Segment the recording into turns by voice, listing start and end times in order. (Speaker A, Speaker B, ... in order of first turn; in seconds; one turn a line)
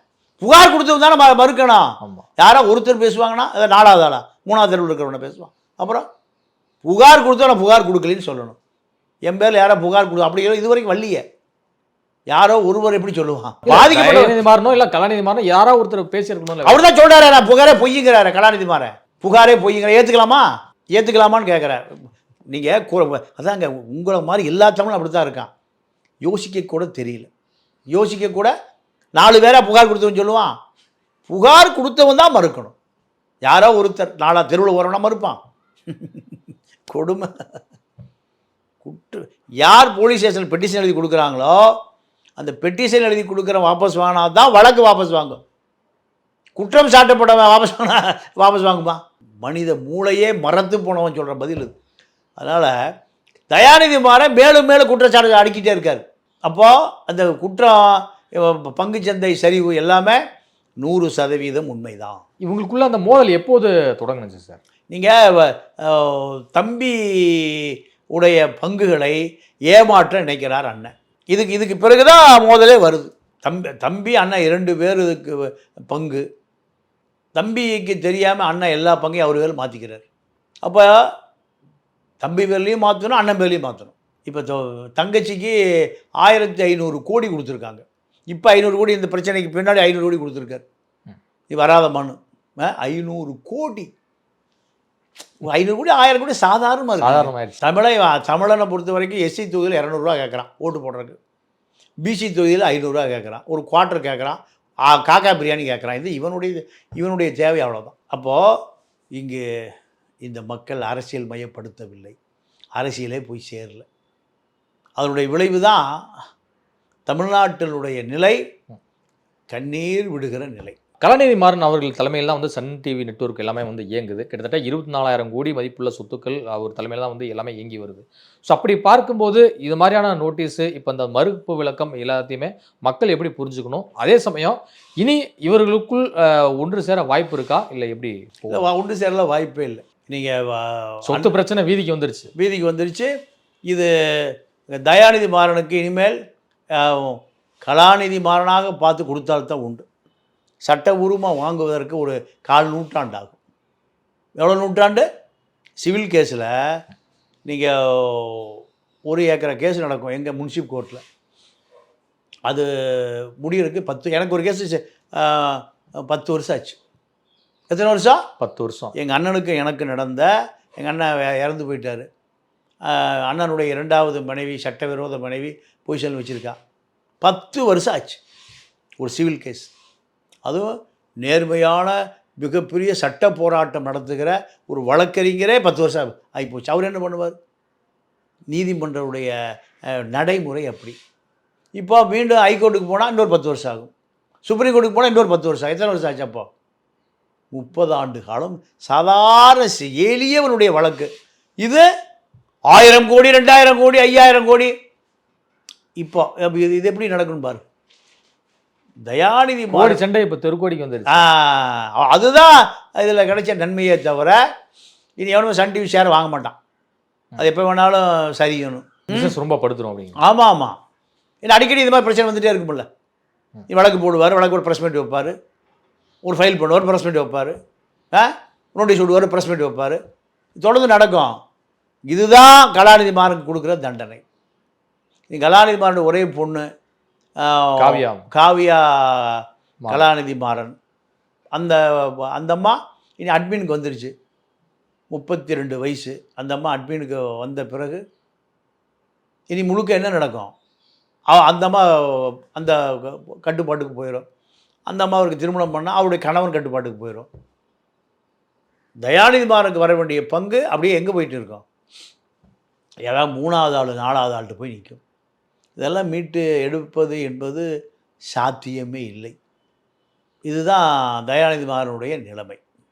Speaker A: 0.4-6.0
Speaker A: 6.8-8.6
Speaker A: 9.3-11.2
Speaker A: 12.3-14.4
Speaker B: 13.7-16.8
Speaker A: 16.6-25.5
Speaker A: 26.2-27.3
Speaker A: 27.9-28.5
Speaker A: 29.2-30.5
Speaker A: 31.3-32.7
Speaker A: 33.5-35.4
Speaker A: 35.9-36.4
Speaker A: 36.9-37.3
Speaker A: 38.8-41.7
Speaker A: 42.4-45.4
Speaker A: 46.5-51.7
Speaker A: 52.4-52.7
Speaker A: 53.5-60.2
Speaker A: 60.8-62.2
Speaker B: 62.4-64.6
Speaker A: 64.9-76.2
Speaker A: 77.3-80.0
Speaker A: 80.6-81.1
Speaker A: 82.2-85.5
Speaker A: 86.2-90.6
Speaker A: 91.5-93.9
Speaker A: 95.4-101.2
Speaker B: 97.0-97.6
Speaker A: 102.0-108.6
Speaker A: 109.1-109.6
Speaker A: 110.2-112.2
Speaker A: 112.8-113.8
Speaker A: 115.0-115.8
Speaker A: 117.1-118.4
Speaker A: 119.5-120.8
Speaker B: 121.0-138.7
Speaker A: 138.5-141.3
Speaker B: 141.1-142.3
Speaker A: 142.3-143.1
Speaker A: 143.7-146.2
Speaker A: 146.7-149.8
Speaker A: 150.6-153.4
Speaker A: 154.4-155.1
Speaker A: 155.8-156.8
Speaker A: 157.5-161.0
Speaker A: 162.5-166.8
Speaker A: 167.7-168.2
Speaker B: 168.4-168.9
Speaker A: 168.9-172.1
Speaker A: 172.8-176.6
Speaker A: 177.2-178.2
Speaker A: 179.0-179.7
Speaker A: 181.2-187.3
Speaker A: 188.5-189.3
Speaker A: 189.9-190.9
Speaker A: 191.8-193.9
Speaker A: 194.4-196.5
Speaker A: 197.5-201.1
Speaker A: 201.6-201.8
Speaker A: 202.7-204.7
Speaker A: 206.0-207.6
Speaker A: 209.1-210.0
Speaker B: 209.7-211.2
Speaker A: 211.1-214.4
Speaker A: 215.2-216.6
Speaker A: 217.4-219.3
Speaker B: 219.1-220.2
Speaker A: 220.2-220.7
Speaker A: 221.4-222.9
Speaker A: 223.7-225.3
Speaker A: 226.2-227.5
Speaker A: 228.1-230.0
Speaker A: 230.6-231.3
Speaker A: 232.1-234.2
Speaker A: 235.3-236.7
Speaker A: 237.4-240.7
Speaker B: 237.8-238.3
Speaker A: 241.5-244.1
Speaker A: 245.1-248.0
Speaker A: 249.5-250.5
Speaker A: 251.3-254.2
Speaker A: 254.9-257.3
Speaker A: 259.0-261.6
Speaker A: 263.1-265.0
Speaker A: 265.8-267.7
Speaker A: 268.3-269.3
Speaker A: 270.5-272.6